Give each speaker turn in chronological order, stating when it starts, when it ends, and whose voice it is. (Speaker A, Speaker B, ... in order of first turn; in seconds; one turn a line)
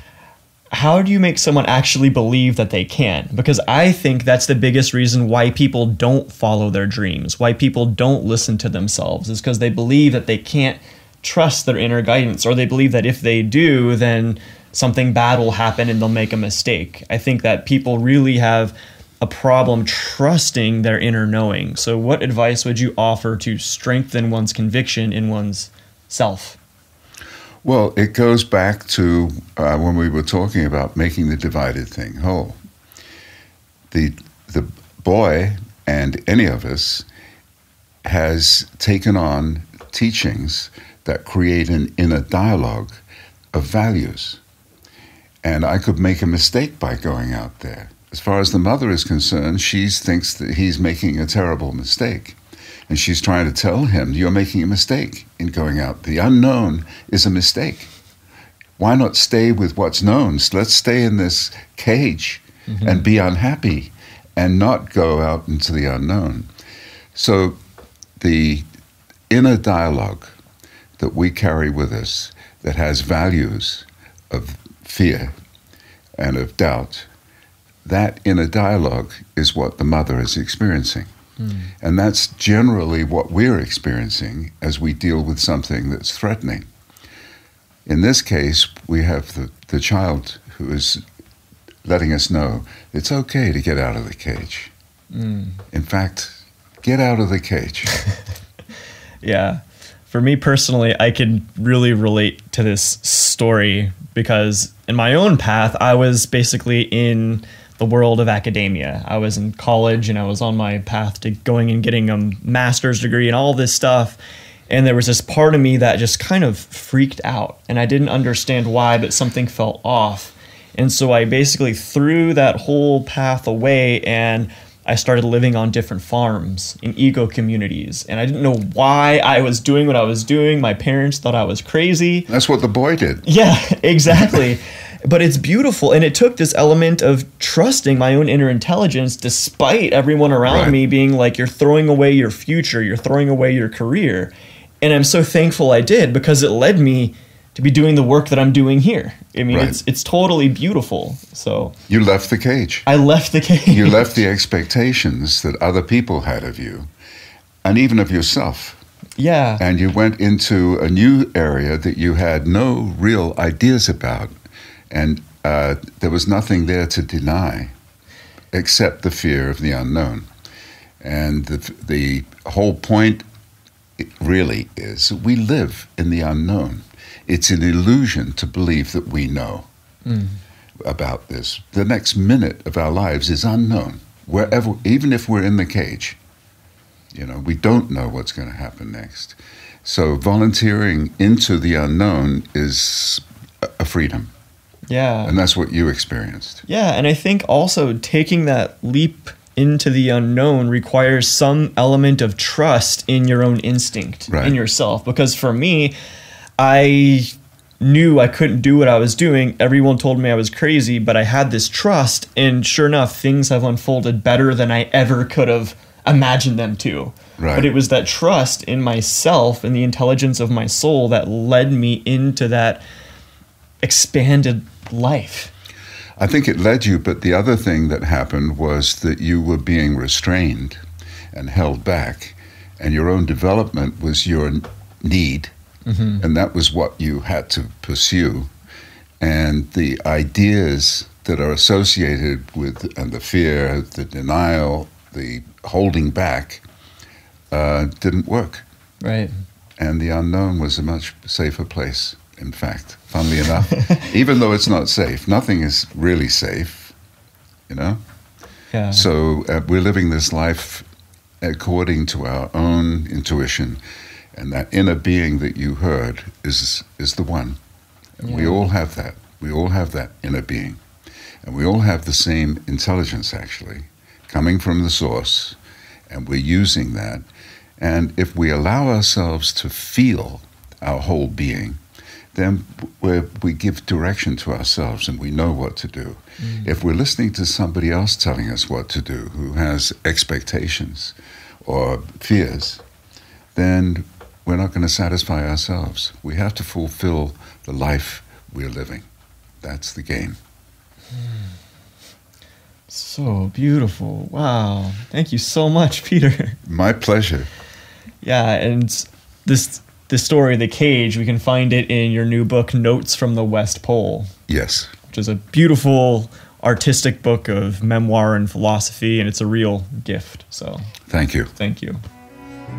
Speaker A: 0.7-26.6
Speaker B: 27.6-32.6
Speaker B: 33.9-37.1
Speaker B: 38.0-43.0
Speaker B: 43.5-44.4
Speaker B: 45.4-52.4
Speaker B: 52.9-57.9
Speaker B: 58.8-66.5
Speaker A: 62.7-63.0
Speaker B: 67.1-67.6
Speaker B: 68.2-68.7
Speaker B: 69.3-70.4
Speaker B: 71.0-75.3
Speaker B: 76.2-77.1
Speaker B: 77.8-81.1
Speaker A: 81.4-81.7
Speaker B: 81.8-86.7
Speaker B: 87.8-91.0
Speaker B: 91.8-94.7
Speaker A: 95.1-95.6
Speaker B: 95.7-97.9
Speaker A: 99.2-132.3
Speaker B: 132.3-133.2
Speaker A: 133.2-151.7
Speaker B: 134.1-134.4
Speaker B: 140.4-140.8
Speaker B: 149.5-149.8
Speaker B: 151.9-152.8
Speaker A: 152.8-154.1
Speaker B: 153.7-156.9
Speaker B: 157.6-158.8
Speaker A: 159.2-159.6
Speaker B: 159.6-164.3
Speaker B: 164.9-167.7
Speaker B: 168.5-170.3
Speaker B: 171.0-173.2
Speaker B: 174.0-179.7
Speaker A: 180.1-180.4
Speaker B: 180.8-186.2
Speaker B: 187.1-193.2
Speaker B: 193.8-194.3
Speaker A: 194.9-195.3
Speaker B: 195.2-196.6
Speaker A: 196.7-205.9
Speaker B: 204.3-204.6
Speaker A: 206.6-222.8
Speaker B: 217.4-217.7
Speaker A: 223.8-225.5
Speaker B: 226.2-230.8
Speaker B: 231.3-235.5
Speaker A: 235.9-236.2
Speaker B: 236.2-238.5
Speaker B: 239.2-246.6
Speaker B: 247.5-248.6
Speaker A: 249.0-249.3
Speaker B: 249.8-256.9
Speaker B: 257.7-258.0
Speaker A: 258.7-259.1
Speaker B: 258.9-260.9
Speaker B: 261.4-263.8
Speaker B: 264.3-267.6
Speaker B: 268.2-270.8
Speaker A: 268.2-268.7
Speaker B: 271.4-275.6
Speaker B: 276.1-277.2
Speaker B: 277.8-281.8
Speaker B: 282.3-292.8
Speaker A: 286.4-286.7
Speaker B: 293.5-299.1
Speaker B: 299.6-300.4
Speaker A: 302.9-306.6
Speaker B: 306.6-307.5
Speaker A: 308.2-314.3
Speaker B: 314.5-314.9
Speaker A: 315.1-320.9
Speaker B: 321.1-321.5
Speaker A: 321.5-322.0